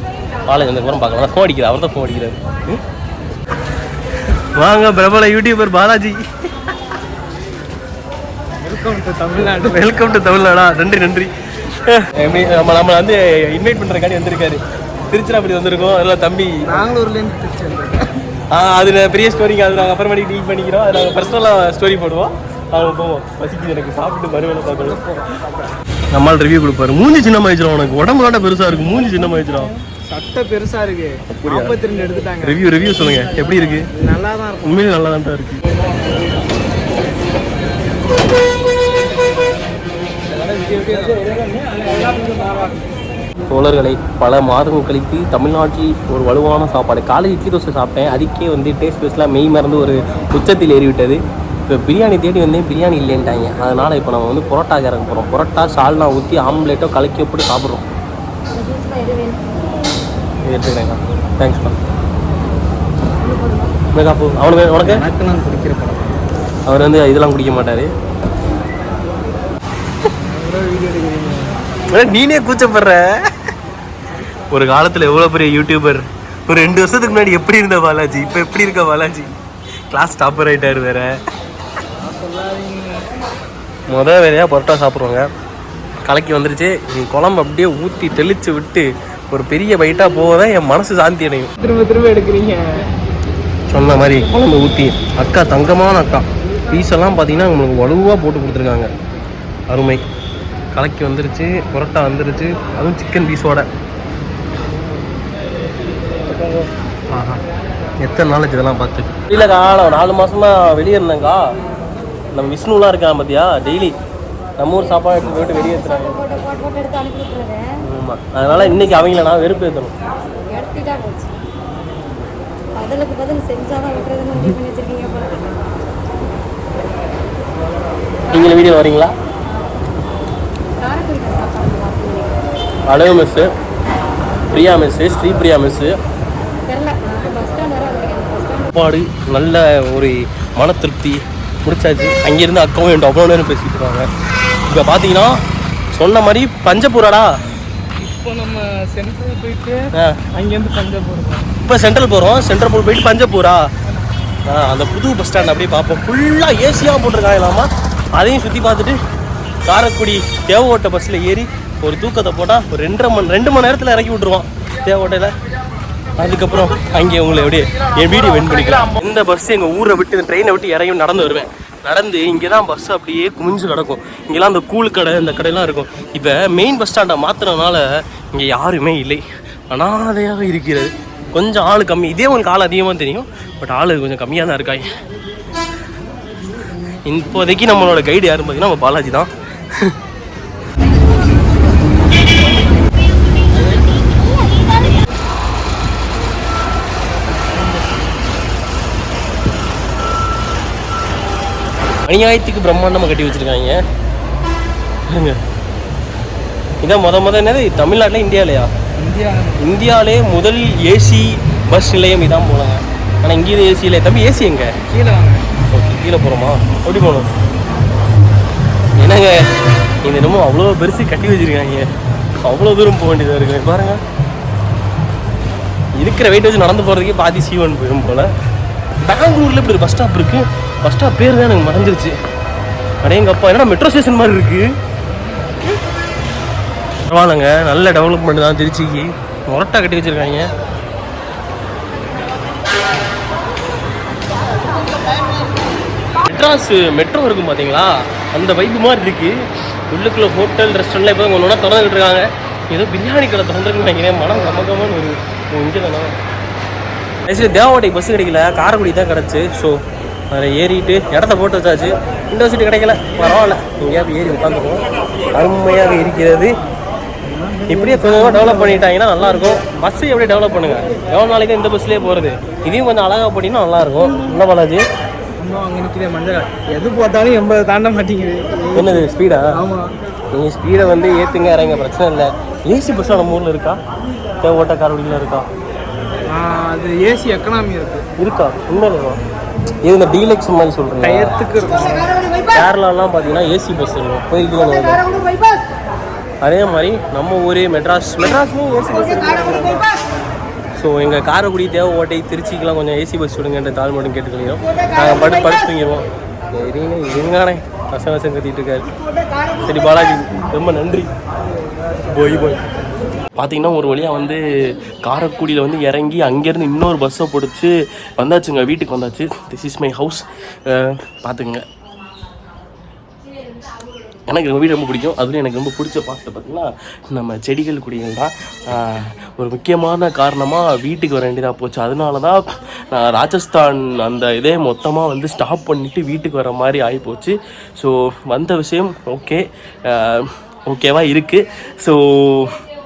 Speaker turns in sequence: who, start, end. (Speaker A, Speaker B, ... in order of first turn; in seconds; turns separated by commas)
Speaker A: 0.5-2.8, Speaker A: 4.5-6.2, Speaker B: 8.6-9.9, Speaker A: 9.4-16.8, Speaker B: 16.7-18.1, Speaker A: 18.5-25.0, Speaker B: 24.7-25.7, Speaker A: 26.1-29.7, Speaker B: 30.1-32.8, Speaker A: 31.4-31.8, Speaker A: 32.4-33.9, Speaker B: 34.0-34.8, Speaker A: 34.6-35.6, Speaker B: 40.3-42.8, Speaker A: 43.5-57.9, Speaker C: 58.5-59.6, Speaker A: 60.5-61.8, Speaker C: 63.2-63.7, Speaker A: 63.9-65.0, Speaker B: 64.8-66.2, Speaker A: 66.7-67.9, Speaker B: 70.2-71.6, Speaker A: 71.9-73.2, Speaker A: 74.5-79.3, Speaker A: 79.9-81.2, Speaker B: 82.0-83.1, Speaker A: 83.9-85.3, Speaker A: 86.1-91.5, Speaker B: 91.6-92.6, Speaker A: 93.7-98.9, Speaker A: 99.7-100.0, Speaker A: 100.7-103.7, Speaker B: 106.3-106.7, Speaker A: 107.1-107.4, Speaker A: 108.0-111.4, Speaker A: 112.3-114.0, Speaker A: 114.6-116.2, Speaker C: 115.1-117.7, Speaker A: 117.8-119.9, Speaker C: 120.5-121.4, Speaker C: 122.8-125.4, Speaker A: 128.3-129.1, Speaker C: 130.8-132.4, Speaker A: 132.9-133.5, Speaker A: 134.5-135.9, Speaker C: 136.7-138.7, Speaker A: 138.7-144.1, Speaker A: 144.7-145.4, Speaker A: 145.9-147.3, Speaker B: 148.0-151.5, Speaker A: 151.7-153.7, Speaker A: 154.5-159.0, Speaker A: 159.7-165.3, Speaker A: 166.2-184.9, Speaker A: 187.1-189.9, Speaker B: 197.4-198.0, Speaker A: 202.1-203.8, Speaker A: 205.1-205.4, Speaker A: 206.8-208.7, Speaker B: 209.0-209.6, Speaker A: 209.6-214.7, Speaker B: 214.9-215.4, Speaker A: 215.7-217.3, Speaker A: 219.0-219.4, Speaker A: 220.0-221.9, Speaker A: 222.4-224.0, Speaker A: 226.0-228.3, Speaker A: 229.0-232.1, Speaker A: 233.0-234.7, Speaker A: 237.1-240.5, Speaker A: 246.2-249.3, Speaker A: 249.9-256.1, Speaker A: 257.3-259.8, Speaker A: 260.3-266.5, Speaker B: 267.3-268.8, Speaker A: 267.7-274.8, Speaker B: 275.4-279.9, Speaker A: 278.8-279.5, Speaker A: 280.3-283.8, Speaker A: 284.4-285.5, Speaker B: 286.3-288.1, Speaker A: 288.2-289.2, Speaker A: 289.8-291.3, Speaker B: 291.0-292.1, Speaker A: 292.5-295.0, Speaker A: 296.4-299.8, Speaker A: 300.8-308.9, Speaker A: 309.6-311.1, Speaker A: 312.0-312.6, Speaker A: 313.4-314.4, Speaker A: 315.0-321.6, Speaker A: 324.3-342.5